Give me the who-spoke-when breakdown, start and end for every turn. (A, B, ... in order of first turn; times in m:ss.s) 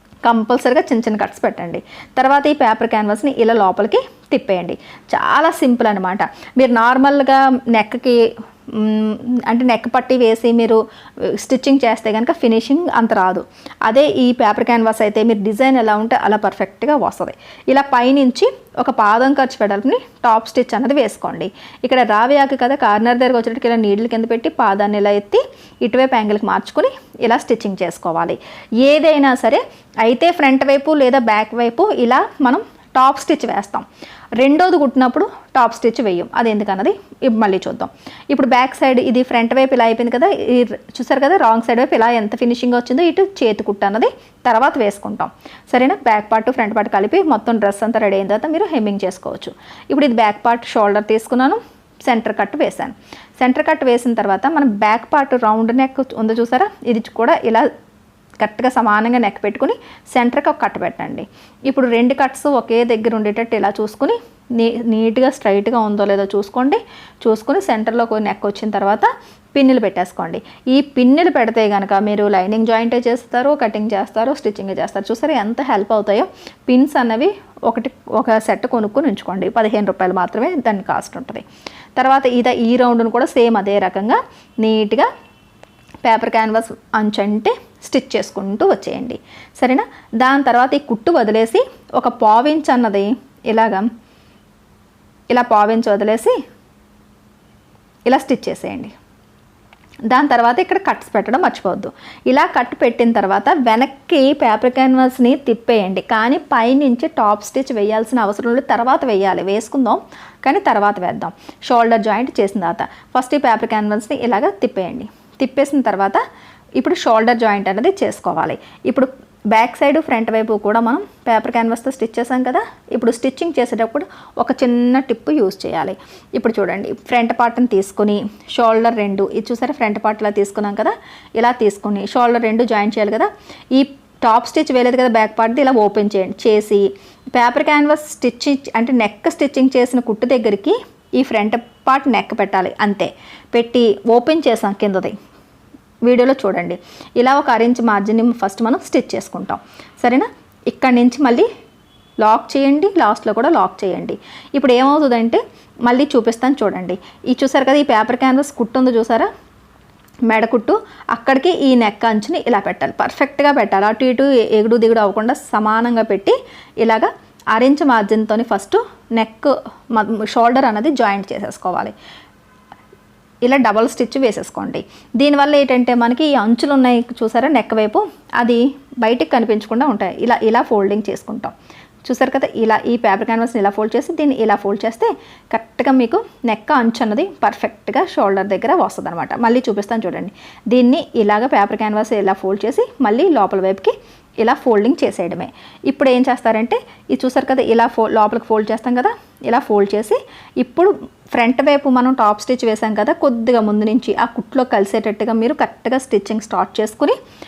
0:00.2-0:33.8 A
0:34.4-0:57.6 A
0:58.4-1:21.4 A
1:22.0-1:25.1 A
1:26.0-1:33.8 A
1:35.3-1:36.4 A
1:38.1-1:38.9 A
1:40.1-1:56.2 A
1:56.8-2:25.2 A
2:26.0-2:31.5 A
2:32.2-2:39.3 A
2:40.3-2:51.9 A
2:53.4-3:01.5 A
3:02.0-3:27.2 A